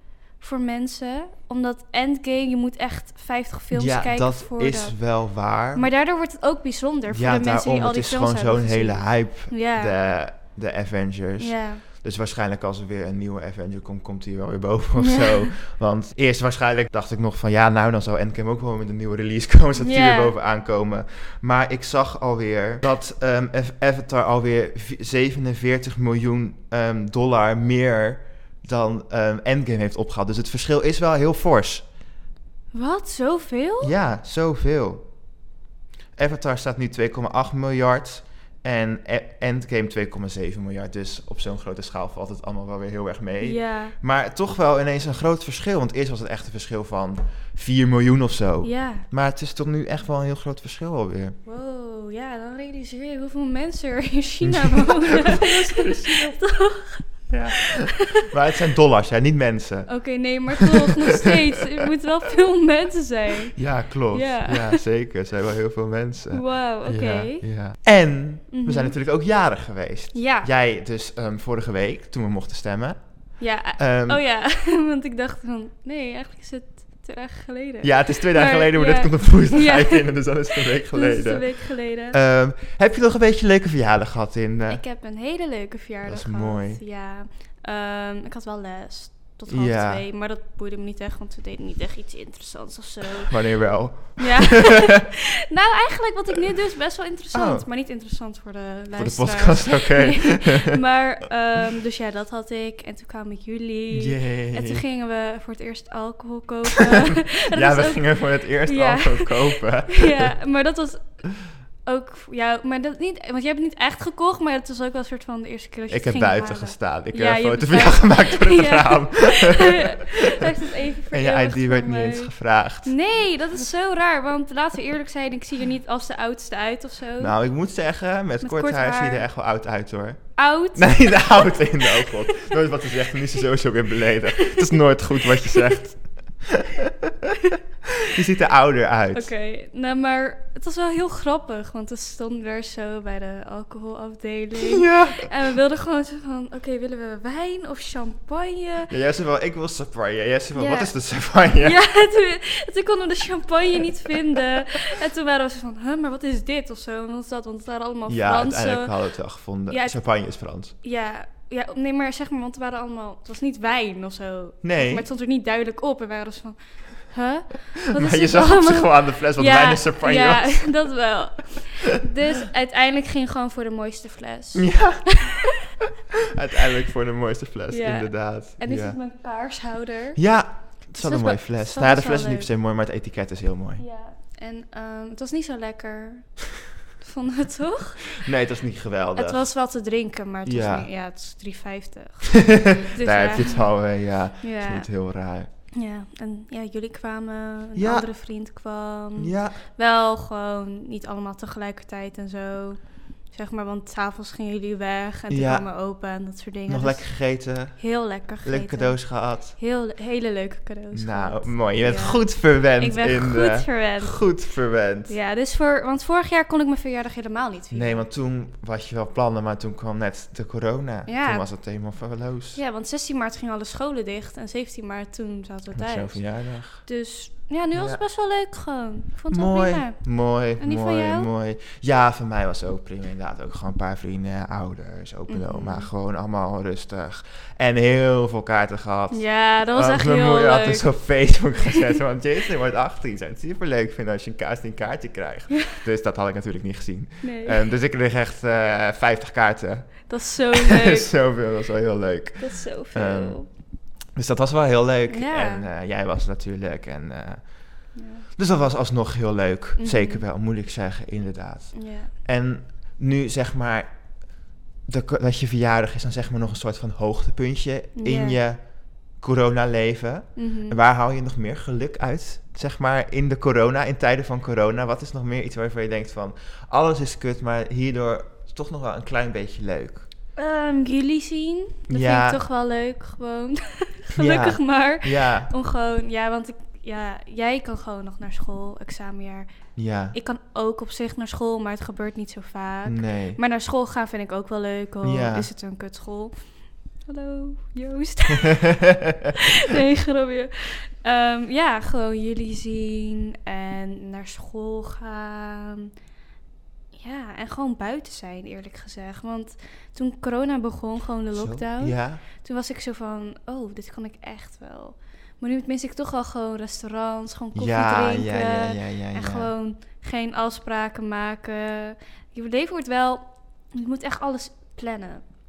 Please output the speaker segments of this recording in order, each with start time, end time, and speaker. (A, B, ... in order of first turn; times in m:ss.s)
0:00.4-0:05.0 A
0:03.7-0:05.9 B
0:05.7-0:09.9 A
0:07.1-0:31.8 B
0:11.4-0:11.8 A
0:15.0-0:15.5 A
0:19.8-0:20.3 A
0:32.7-0:33.9 A
0:33.8-0:35.1 B
0:36.2-0:51.4 B
0:43.4-0:44.0 A
0:48.6-0:49.0 A
0:51.5-0:58.2 A
0:54.4-0:56.4 B
0:57.3-1:00.0 B
0:59.9-1:03.6 A
1:00.5-1:01.4 B
1:03.5-1:13.0 B
1:04.1-1:04.8 A
1:06.3-1:07.4 A
1:08.5-1:08.9 A
1:10.1-1:10.5 A
1:13.4-1:22.2 A
1:13.8-1:14.2 B
1:17.8-1:24.8 B
1:24.7-1:33.4 A
1:26.0-1:26.8 B
1:29.5-1:30.0 B
1:33.2-1:35.0 B
1:34.0-1:51.2 A
1:37.3-1:37.7 B
1:38.9-1:40.8 B
1:43.9-1:44.8 B
1:47.5-1:50.4 B
1:51.8-2:07.3 A
1:55.9-2:00.5 B
2:01.1-2:02.9 B
2:07.2-2:17.4 B
2:08.4-2:09.3 A
2:10.4-2:12.5 A
2:14.4-2:14.8 A
2:15.3-2:15.6 A
2:18.0-2:19.3 B
2:19.1-2:28.9 A
2:24.6-2:25.3 B
2:28.9-2:31.8 B
2:30.6-2:30.9 A
2:31.6-2:38.9 A
2:38.1-2:40.7 B
2:39.7-2:40.0 A
2:40.8-2:55.7 A
2:44.6-2:45.0 B
2:47.9-2:50.7 B
2:54.5-2:55.1 B
2:56.2-2:59.0 B
2:57.7-3:00.2 A
3:00.2-3:03.8 B
3:01.0-3:02.5 A
3:03.8-3:06.4 A
3:07.0-3:08.1 A
3:08.2-3:09.5 B
3:09.2-3:13.7 A
3:10.5-3:10.9 B
3:12.3-3:15.5 B
3:14.4-3:14.9 A
3:15.7-3:22.8 A
3:17.8-3:18.1 B
3:19.2-3:19.6 B
3:23.3-3:27.1 A
3:25.3-3:25.7 B
3:26.7-3:27.8 B
3:27.7-3:32.3 A
3:28.4-3:29.6 B
3:30.9-3:35.1 B
3:32.8-3:34.2 A
3:35.1-3:38.0 A
3:37.7-3:42.6 B
3:41.1-3:41.5 A
3:42.6-3:46.2 A
3:45.8-3:46.9 B
3:46.8-3:50.0 A
3:47.7-3:48.0 B
3:49.3-4:13.5 B
3:50.6-3:51.3 A
3:55.3-3:55.9 A
3:59.1-4:00.9 A
4:07.2-4:07.6 A
4:10.1-4:11.1 A
4:12.4-4:13.5 A
4:14.1-4:17.4 B
4:15.1-4:15.7 A
4:18.0-4:18.2 A
4:18.4-4:23.9 B
4:19.8-4:20.2 A
4:21.7-4:22.1 A
4:24.9-4:28.6 B
4:28.0-4:28.4 A
4:29.2-4:40.1 B
4:30.4-4:30.8 A
4:40.4-4:49.5 A
4:41.9-4:42.4 B
4:44.1-4:45.5 B
4:49.8-4:50.2 B
4:50.1-4:56.3 A
4:52.9-4:53.4 B
4:55.0-4:55.5 B
4:57.0-4:58.7 A
4:58.4-4:59.3 B
4:59.3-5:05.9 A
5:07.0-5:25.2 A
5:11.3-5:12.2 B
5:17.6-5:19.5 B